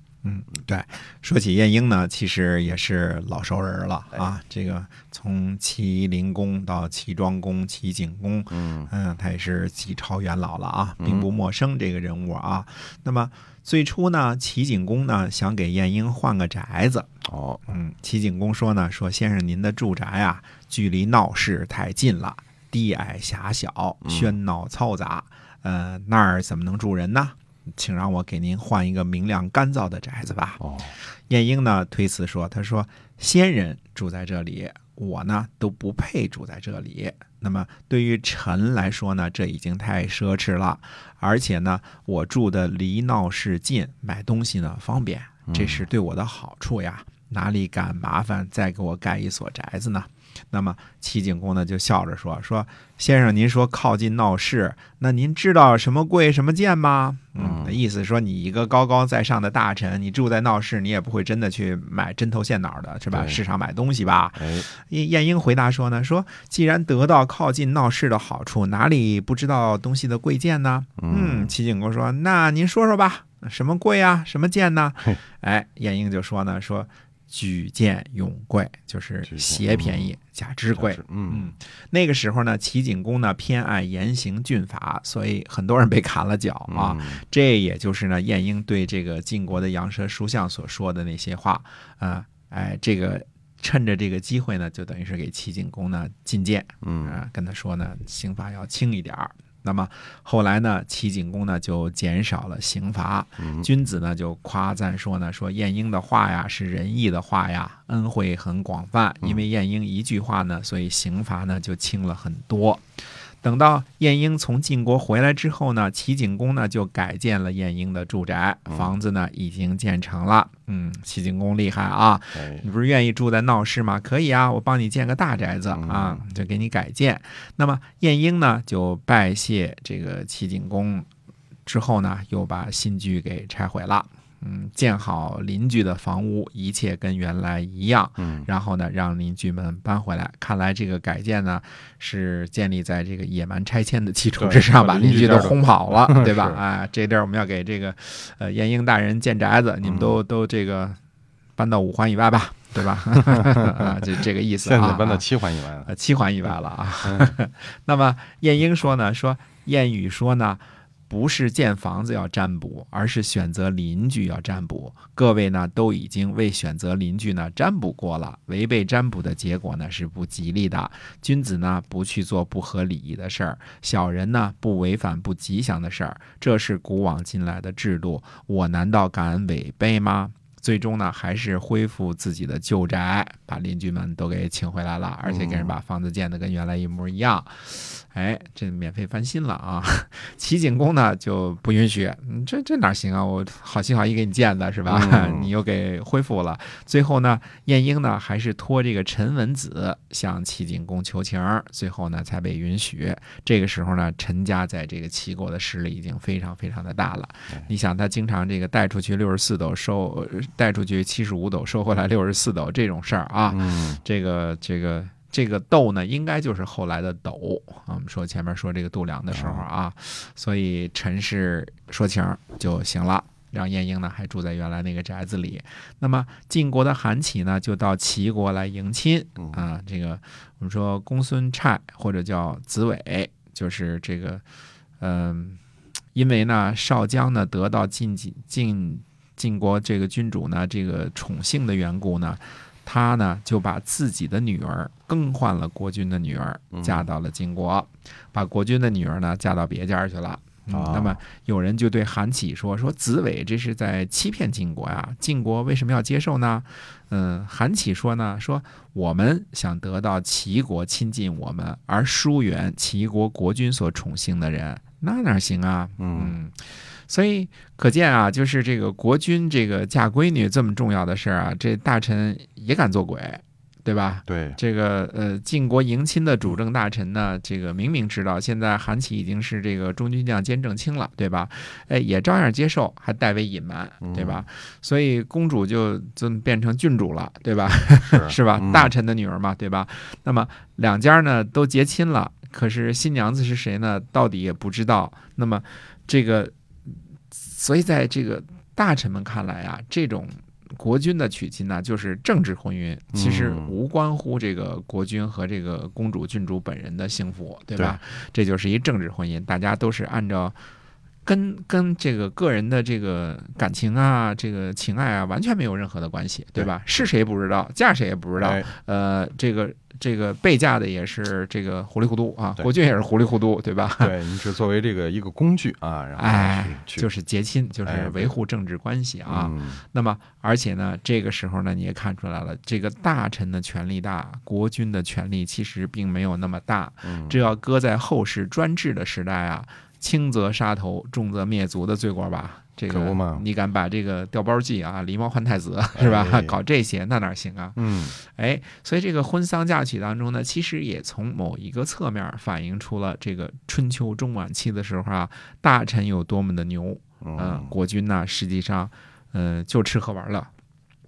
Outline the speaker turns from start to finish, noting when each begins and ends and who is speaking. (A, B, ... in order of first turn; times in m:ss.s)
0:00.2-0:17.1 A
0:08.5-0:08.9 B
0:11.0-0:11.3 B
0:17.2-0:17.7 B
0:17.7-0:30.6 A
0:24.0-0:24.3 B
0:30.6-0:30.9 B
0:31.3-1:52.8 A
0:45.5-0:45.8 B
0:57.4-0:57.8 B
1:03.1-1:03.4 B
1:04.4-1:04.7 B
1:11.0-1:11.5 B
1:19.2-1:20.1 B
1:20.8-1:21.5 B
1:26.7-1:27.2 B
1:36.8-1:37.2 B
1:43.4-1:43.7 B
1:53.4-2:11.1 A
2:02.3-2:02.7 B
2:05.7-2:06.2 B
2:11.6-2:31.0 A
2:18.2-2:18.5 B
2:24.4-2:26.6 B
2:29.8-2:30.2 B
2:31.6-2:35.2 A
2:33.3-2:33.9 B
2:34.6-2:35.9 B
2:35.8-3:54.4 A
2:37.0-2:37.3 B
3:05.2-3:05.7 B
3:14.8-3:15.5 B
3:33.5-3:34.0 B
3:39.3-3:39.6 B
3:55.0-3:55.6 A
3:56.1-4:56.5 A
4:06.7-4:07.1 B
4:10.7-4:11.2 B
4:26.0-4:26.4 B
4:34.3-4:34.6 B
4:44.0-4:44.4 B
4:48.0-4:48.9 B
4:57.3-5:10.6 A
5:03.1-5:03.7 B
5:11.2-5:24.1 A
5:18.4-5:18.7 B
5:24.0-5:27.1 B
5:26.2-6:00.5 A
5:27.8-5:28.3 B
5:29.2-5:29.8 B
5:37.0-5:37.4 B
5:42.9-5:43.4 B
5:46.0-5:46.6 B
5:47.8-5:48.1 B
5:57.2-5:57.7 B